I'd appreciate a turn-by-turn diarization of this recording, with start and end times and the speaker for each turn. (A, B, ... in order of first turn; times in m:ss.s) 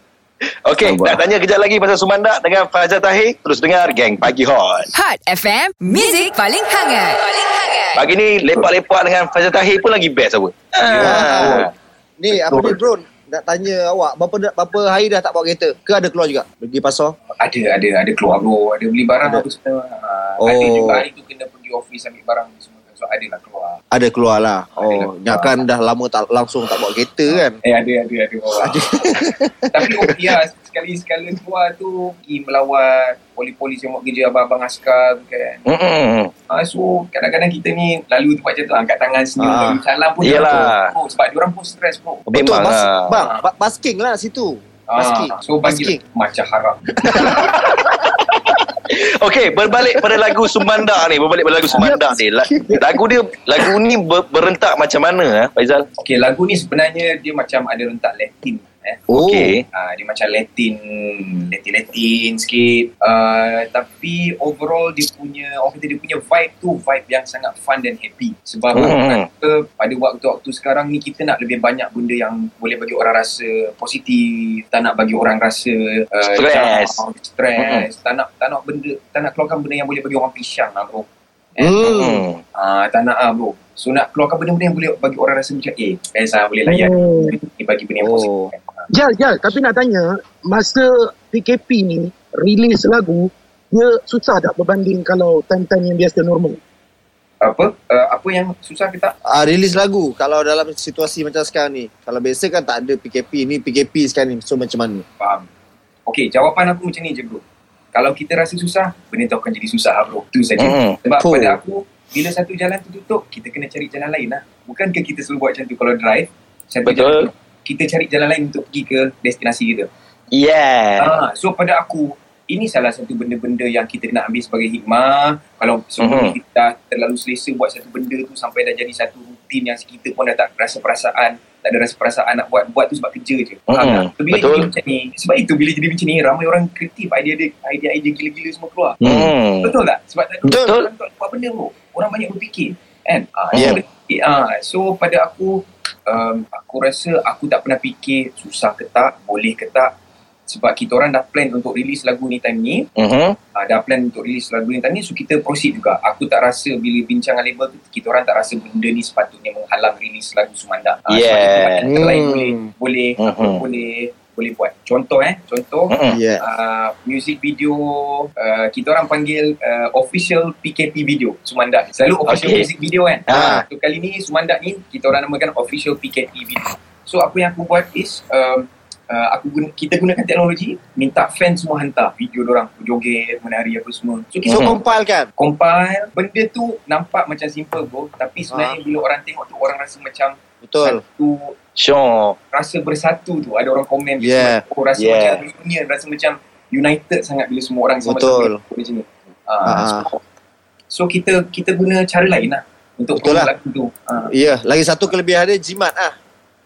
0:00.6-0:04.9 A
0:00.8-0:01.2 B
0:04.9-0:08.0 C
0:07.9-0:11.7 A
0:10.9-0:11.7 D
0:10.9-0:17.1 B
0:12.3-0:12.7 D
0:17.4-0:23.8 D
0:20.4-0:21.0 B
0:23.9-0:27.6 B
0:24.8-0:25.6 D
0:27.3-0:28.8 D
0:28.6-0:30.1 B
0:29.7-0:35.6 D
0:35.6-0:36.3 A
0:36.5-0:42.3 D
0:39.4-0:39.8 B
0:40.2-0:40.9 A
0:42.3-0:46.0 B
0:42.3-0:43.2 A
0:44.9-0:47.4 D
0:47.0-0:48.1 B
0:47.2-0:55.8 A
0:51.7-0:52.0 E
0:52.5-0:52.8 B
0:56.0-0:59.0 D
0:59.1-0:59.5 B
0:59.1-0:59.6 A
0:59.7-1:21.8 D
1:08.7-1:09.2 A
1:16.3-1:17.0 A
1:17.6-1:17.8 A
1:21.6-1:22.2 B
1:21.8-1:22.4 A
1:22.5-1:28.9 D
1:26.7-1:27.4 E
1:28.0-1:28.5 B
1:28.9-1:36.6 E
1:37.4-1:39.1 D
1:39.2-1:45.0 B
1:45.2-1:45.5 D
1:46.1-1:47.4 D
1:47.9-1:59.9 D
1:50.6-1:51.0 A
1:51.2-1:51.6 B
1:56.8-1:57.3 A
2:00.3-2:01.1 A
2:01.0-2:29.9 D
2:06.0-2:06.3 A
2:13.7-2:14.7 A
2:19.0-2:19.7 A
2:20.6-2:20.9 A
2:23.5-2:23.8 A
2:30.5-2:32.9 D
2:33.0-2:33.4 A
2:33.6-3:04.8 D
2:41.1-2:41.9 A
2:41.8-2:42.7 B
2:43.2-2:43.6 A
2:45.9-2:46.2 A
2:46.1-2:46.4 B
2:52.3-2:52.7 A
2:53.3-2:53.6 A
2:53.3-2:53.6 B
3:04.4-3:05.3 B
3:04.5-3:04.8 A
3:05.4-3:11.6 D
3:10.6-3:11.0 B
3:11.8-3:12.4 A
3:12.5-3:20.2 D
3:14.2-3:14.6 B
3:15.0-3:15.4 A
3:18.0-3:18.6 B
3:19.6-3:20.0 B
3:20.9-3:24.3 D
3:23.2-3:23.5 B
3:24.3-3:26.1 B